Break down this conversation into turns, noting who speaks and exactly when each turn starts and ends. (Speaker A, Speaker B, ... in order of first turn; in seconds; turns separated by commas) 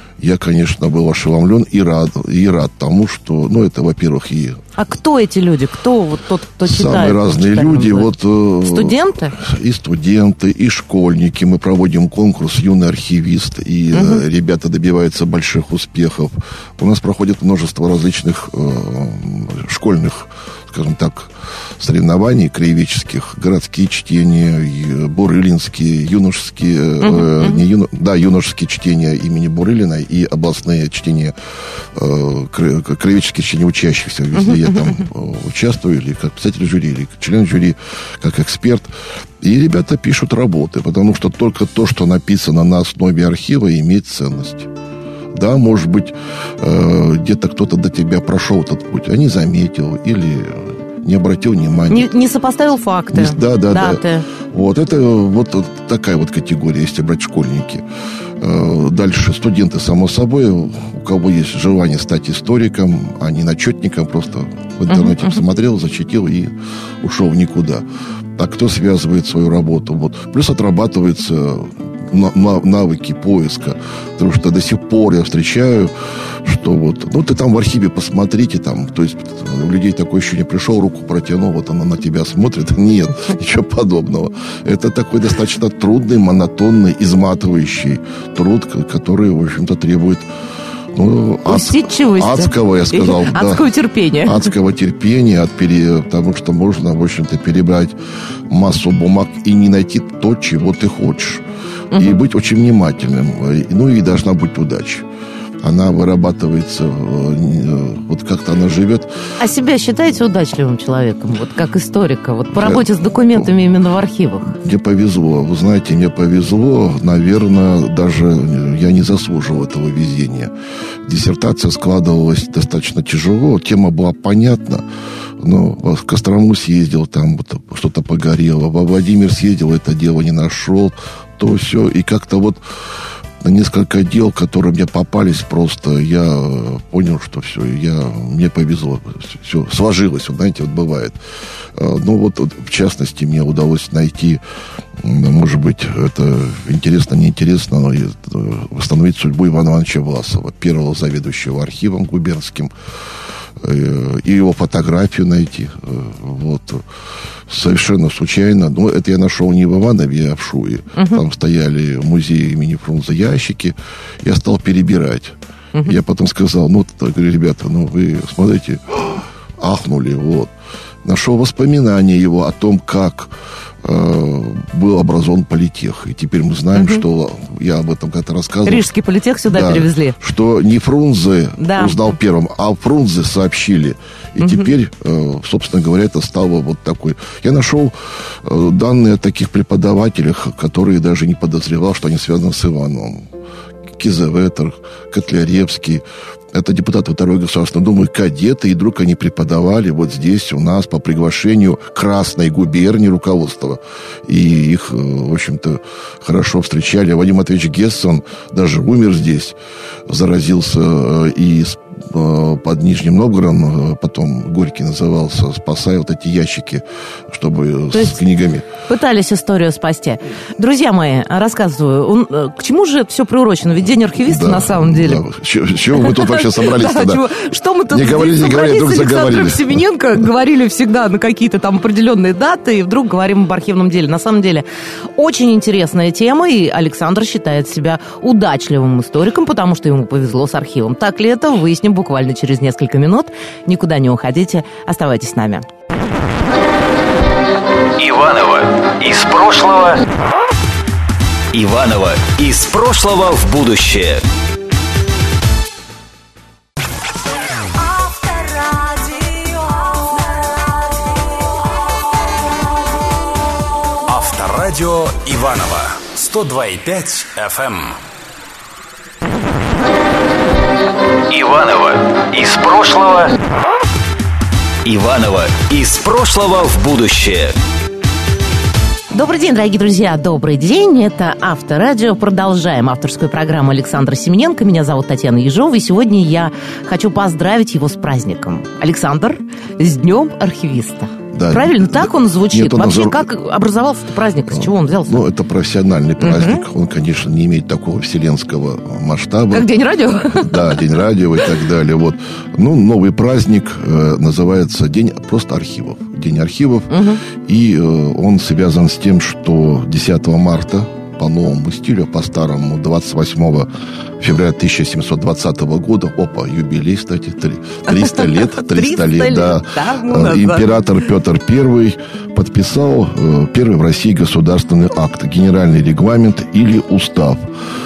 Speaker A: 0.2-4.6, Speaker B: 4.8-9.3, Speaker A: 6.6-31.3, Speaker B: 13.9-14.2, Speaker B: 27.0-27.6, Speaker A: 31.9-44.7, Speaker B: 34.4-34.8, Speaker A: 45.3-52.1, Speaker B: 51.9-54.3, Speaker A: 53.1-57.8, Speaker A: 58.4-67.8, Speaker B: 64.9-65.2, Speaker A: 68.4-90.3, Speaker A: 90.9-93.7, Speaker B: 91.5-94.5, Speaker A: 94.2-98.0, Speaker A: 98.5-105.0, Speaker B: 101.9-102.2, Speaker A: 105.6-109.1, Speaker B: 109.4-114.6, Speaker A: 112.5-113.5, Speaker A: 114.6-120.5, Speaker A: 121.0-124.8, Speaker A: 125.4-132.6, Speaker A: 133.4-141.2, Speaker A: 141.7-144.4, Speaker A: 145.0-152.7, Speaker A: 153.6-156.8, Speaker A: 157.5-170.5, Speaker B: 160.9-161.2, Speaker A: 171.0-173.3, Speaker A: 173.8-178.9, Speaker B: 176.7-177.0, Speaker B: 178.7-180.2, Speaker A: 179.5-193.3, Speaker B: 181.6-182.1, Speaker B: 184.4-184.7, Speaker A: 194.0-209.6, Speaker A: 210.1-218.7, Speaker B: 217.9-218.2, Speaker B: 218.8-225.2, Speaker A: 224.2-227.2, Speaker B: 225.9-234.7, Speaker A: 227.9-229.8, Speaker B: 235.2-245.7, Speaker C: 248.0-250.0, Speaker C: 251.5-254.2, Speaker C: 258.1-260.1, Speaker C: 264.1-268.0, Speaker C: 271.3-273.4, Speaker C: 274.8-277.6, Speaker B: 279.1-295.2, Speaker A: 291.3-293.3, Speaker A: 294.5-299.7, Speaker B: 296.2-296.6, Speaker B: 299.5-300.8, Speaker A: 300.2-313.7, Speaker B: 306.9-307.2, Speaker A: 314.2-327.4, Speaker B: 317.9-320.7